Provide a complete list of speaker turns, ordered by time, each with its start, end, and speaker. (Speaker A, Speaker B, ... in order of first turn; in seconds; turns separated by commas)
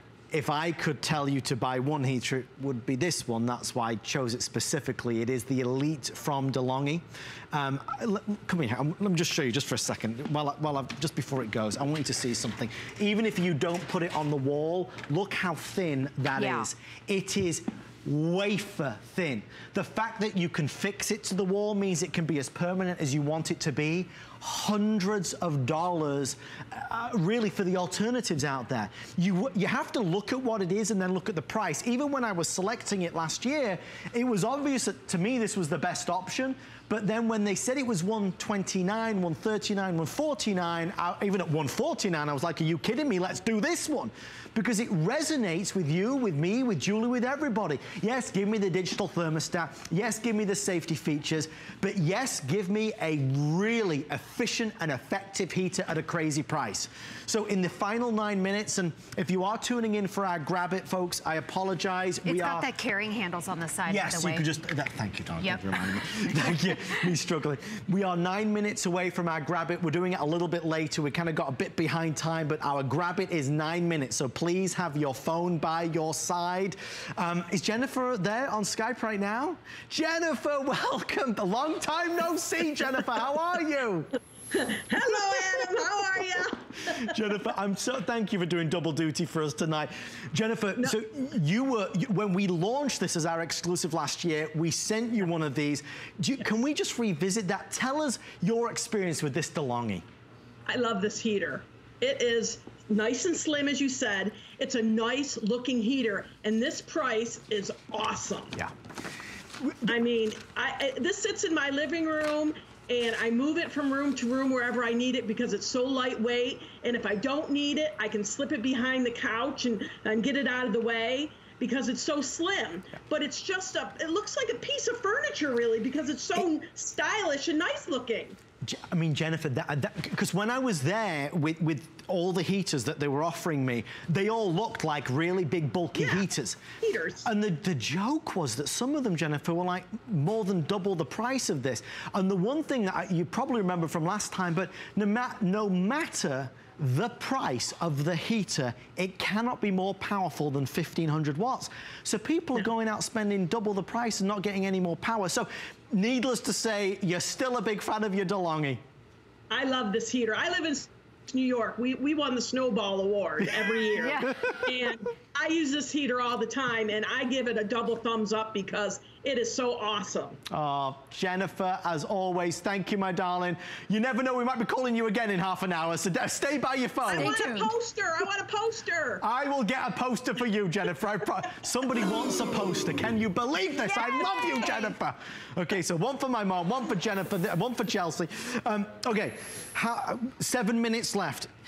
Speaker A: 0.3-62.7, Speaker B: 16.3-16.7, Speaker B: 62.2-64.5, Speaker A: 63.9-84.1, Speaker B: 65.4-66.9, Speaker C: 84.7-86.6, Speaker A: 87.1-100.0, Speaker C: 100.7-108.5, Speaker C: 109.9-128.4, Speaker A: 128.6-136.7, Speaker C: 136.0-136.2, Speaker C: 136.8-137.3, Speaker A: 137.2-158.8, Speaker C: 159.5-170.4, Speaker A: 163.4-164.8, Speaker B: 163.9-164.4, Speaker A: 170.5-177.6, Speaker C: 177.0-179.2, Speaker B: 177.1-177.7, Speaker A: 179.2-191.5, Speaker B: 183.7-185.0